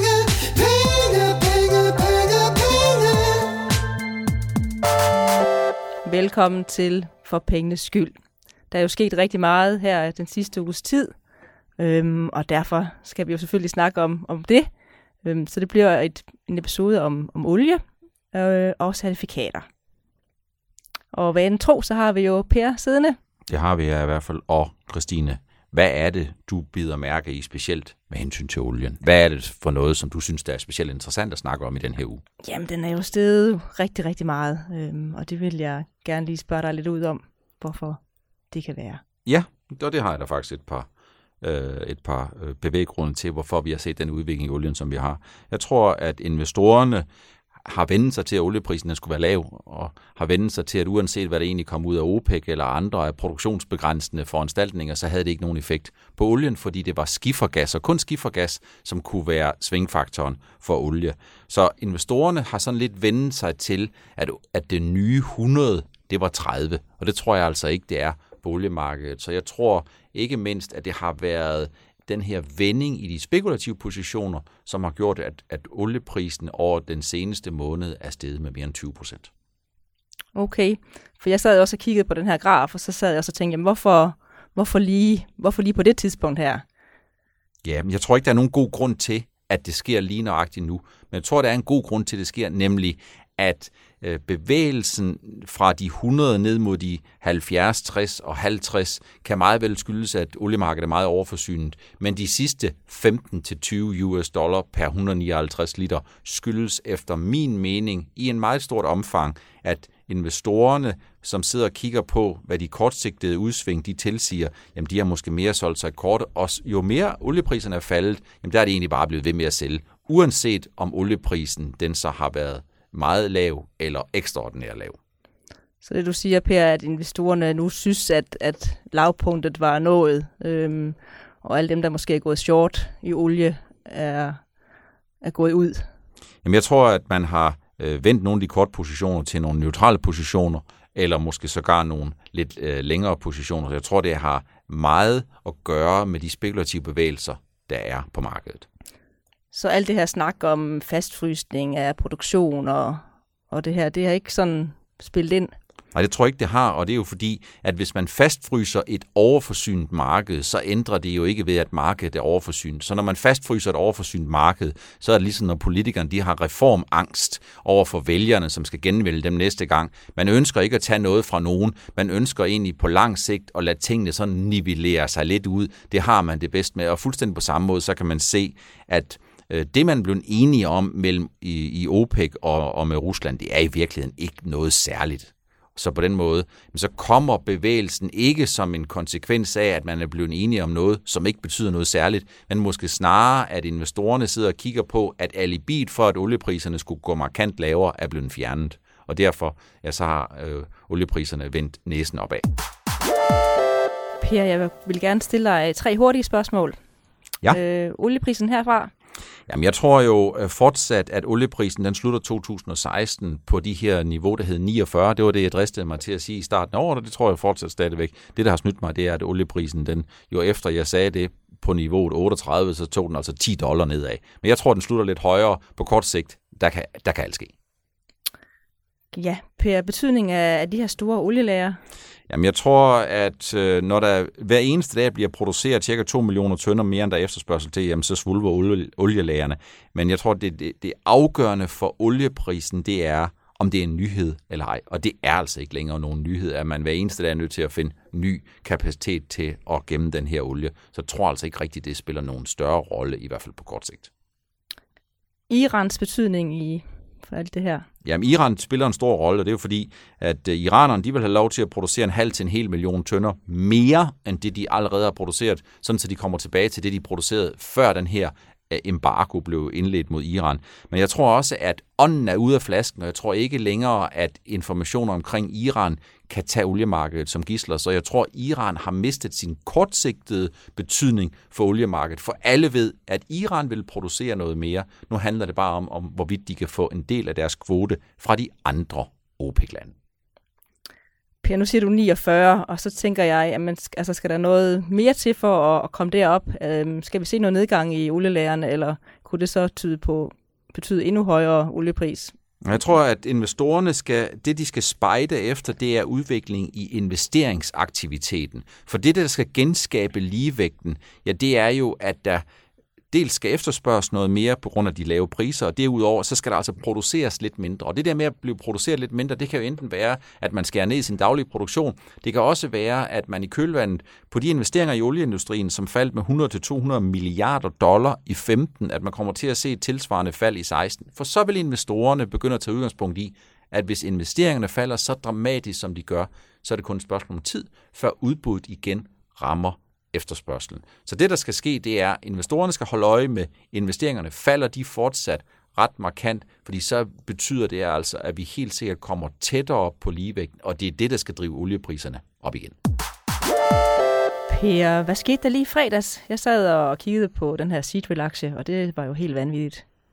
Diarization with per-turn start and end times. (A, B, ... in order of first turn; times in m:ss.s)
0:00.4-0:02.9 A
0:06.0-0:08.1 A
0:08.7-0:11.1 A
0:11.8-0:14.7 A
0:15.2-0:17.8 A
0:18.3-0:19.7 A
0:21.1-0:23.2 A
0:23.5-0:32.2 B
0:32.4-0:39.0 A
0:39.2-0:40.9 B
0:41.4-0:47.0 B
0:47.6-1:19.3 B
1:20.3-1:26.6 A
1:27.6-2:05.0 B
2:05.8-2:14.4 A
2:15.2-2:15.9 A
2:16.4-2:28.6 B
2:29.5-2:35.5 A
2:35.9-3:22.5 B
3:24.2-3:26.8 A
3:27.5-3:28.9 A
3:29.5-3:47.5 B
3:49.1-3:51.8 A
3:52.3-4:14.1 B
4:15.5-4:17.9 A
4:18.0-4:49.9 B
4:51.4-5:02.4 A
5:02.6-5:12.4 B
5:13.1-5:52.8 B
5:54.5-5:59.8 A